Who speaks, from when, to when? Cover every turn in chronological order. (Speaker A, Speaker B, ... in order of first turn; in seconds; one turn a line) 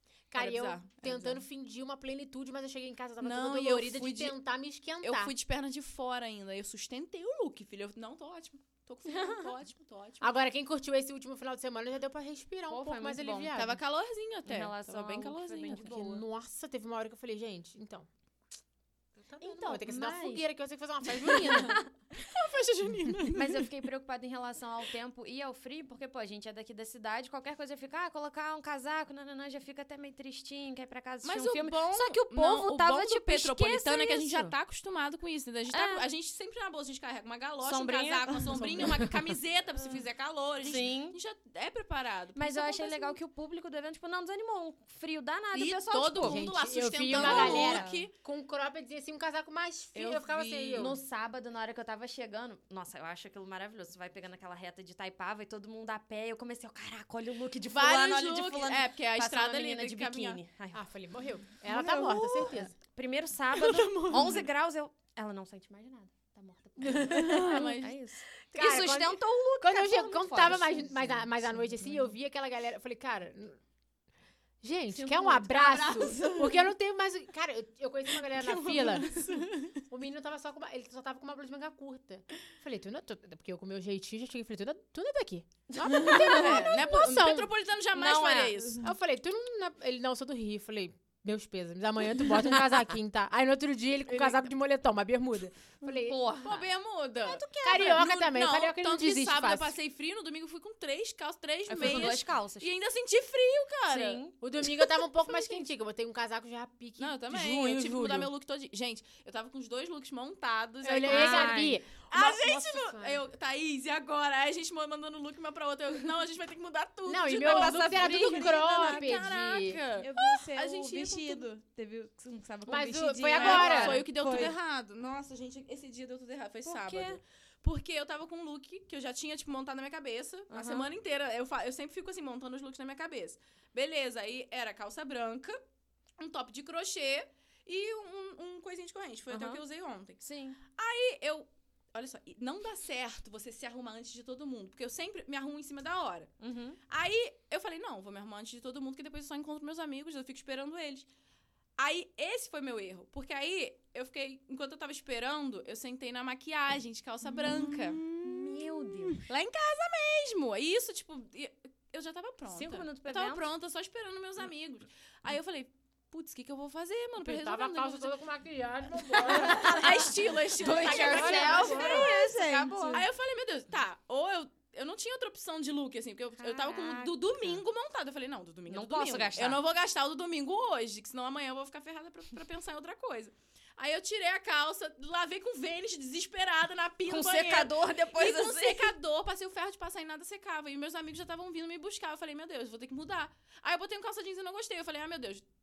Speaker A: 0.3-5.3
Speaker B: 0.3-1.4
Speaker B: 3.2-4.3
Speaker B: 5.0-10.3
Speaker C: 9.1-9.4
Speaker A: 10.2-13.8
Speaker C: 12.7-13.5
Speaker B: 13.5-15.9
Speaker C: 14.4-16.2
Speaker A: 15.7-18.1
Speaker A: 19.2-21.8
Speaker C: 19.4-20.5
Speaker B: 21.2-23.7
Speaker C: 21.3-21.9
Speaker C: 23.3-34.5
Speaker B: 31.2-43.2
Speaker C: 35.7-36.1
Speaker C: 37.6-39.1
Speaker A: 38.6-39.1
Speaker C: 40.6-41.2
Speaker C: 42.4-46.4
Speaker B: 45.5-48.1
Speaker A: 46.2-51.0
Speaker C: 47.1-48.0
Speaker D: 47.3-47.9
Speaker B: 49.9-50.9
Speaker C: 50.8-60.8
Speaker B: 57.7-60.4
Speaker A: 60.7-62.7
Speaker D: 61.7-62.6
Speaker C: 62.8-72.1
Speaker B: 63.5-64.5
Speaker A: 66.8-67.6
Speaker B: 67.1-68.0
Speaker D: 67.2-67.6
Speaker A: 68.5-73.6
Speaker A: 74.6-79.2
Speaker C: 74.9-76.3
Speaker D: 75.7-76.7
Speaker B: 78.3-79.8
Speaker A: 79.9-87.5
Speaker C: 85.7-86.6
Speaker D: 85.8-86.2
Speaker B: 85.9-88.9
Speaker C: 87.9-88.6
Speaker A: 88.8-96.2
Speaker B: 94.1-94.4
Speaker C: 95.9-96.7
Speaker B: 96.4-104.2
Speaker C: 97.2-98.0
Speaker A: 97.6-99.7
Speaker C: 101.7-102.7
Speaker C: 103.9-104.3
Speaker A: 104.4-108.3
Speaker B: 107.0-121.5
Speaker A: 110.8-113.2
Speaker C: 111.0-111.8
Speaker A: 117.0-119.8
Speaker C: 117.4-119.0
Speaker D: 118.8-119.2
Speaker D: 120.0-124.5
Speaker A: 122.7-124.0
Speaker B: 123.3-135.6
Speaker C: 123.4-124.0
Speaker C: 126.6-127.2
Speaker C: 130.5-130.9
Speaker B: 136.2-146.3
Speaker C: 139.3-139.6
Speaker C: 140.2-140.6
Speaker C: 146.4-146.8
Speaker B: 146.9-151.1
Speaker B: 151.8-158.1
Speaker D: 157.2-159.1
Speaker C: 158.1-159.2
Speaker B: 159.2-168.1
Speaker C: 162.4-163.5
Speaker A: 167.2-172.2
Speaker C: 169.1-173.0
Speaker B: 169.4-172.2
Speaker D: 170.9-173.0
Speaker B: 172.9-195.4
Speaker C: 176.4-177.6
Speaker C: 178.7-179.6
Speaker C: 187.1-188.9